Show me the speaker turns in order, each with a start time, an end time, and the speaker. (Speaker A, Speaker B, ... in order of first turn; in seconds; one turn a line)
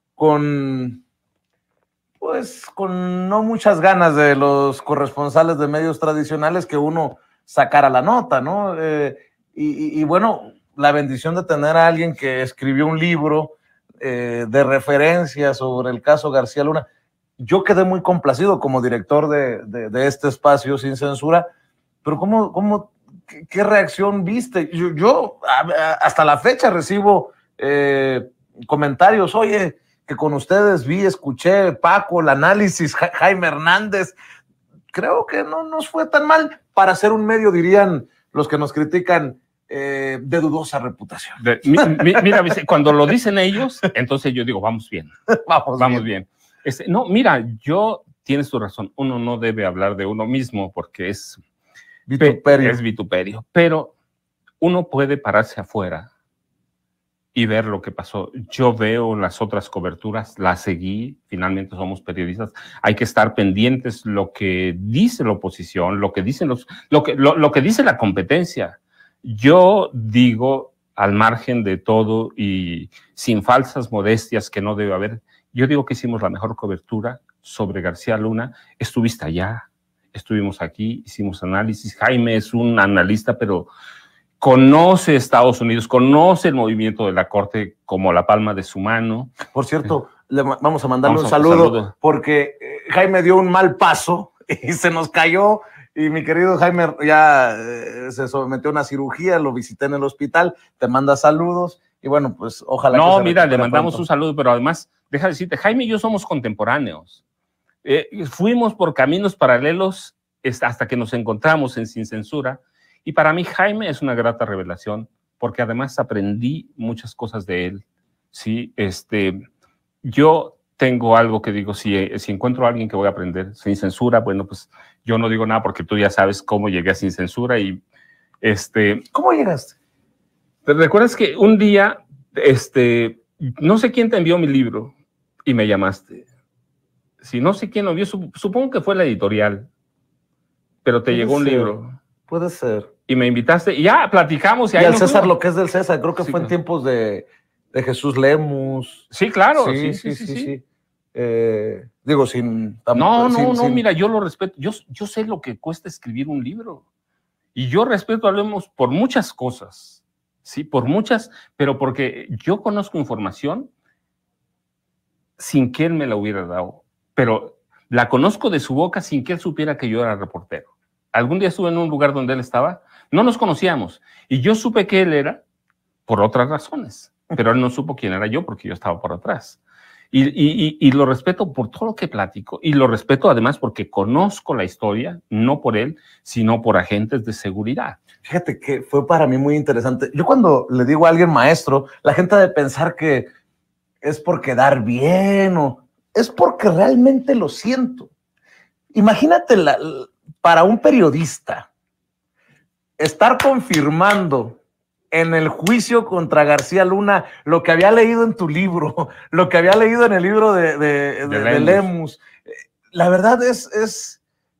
Speaker A: 0.2-1.0
Speaker A: 2.2-16.9
Speaker A: 17.4-21.5
Speaker A: 22.0-34.1
Speaker A: 34.9-42.2
Speaker B: 41.4-45.1
Speaker A: 45.3-46.0
Speaker B: 45.8-51.4
Speaker A: 52.1-52.8
Speaker B: 52.2-53.9
Speaker B: 54.6-56.1
Speaker B: 57.3-83.7
Speaker B: 84.4-89.4
Speaker A: 89.5-104.0
Speaker B: 91.0-91.9
Speaker B: 102.9-107.2
Speaker B: 107.8-119.4
Speaker B: 120.0-127.8
Speaker B: 128.4-129.0
Speaker A: 129.1-129.8
Speaker B: 130.7-134.9
Speaker B: 135.4-136.2
Speaker B: 137.2-139.7
Speaker B: 140.8-142.0
Speaker A: 141.1-141.8
Speaker A: 142.3-142.9
Speaker B: 143.1-145.3
Speaker A: 144.7-150.6
Speaker B: 146.2-146.5
Speaker B: 149.1-150.5
Speaker A: 151.1-153.8
Speaker B: 152.9-156.8
Speaker B: 157.5-163.7
Speaker B: 165.4-175.4
Speaker B: 176.1-179.6
Speaker B: 180.1-188.0
Speaker A: 188.2-193.3
Speaker A: 194.0-198.1
Speaker A: 198.9-201.7
Speaker A: 203.0-204.6
Speaker A: 205.1-214.2
Speaker B: 211.2-211.9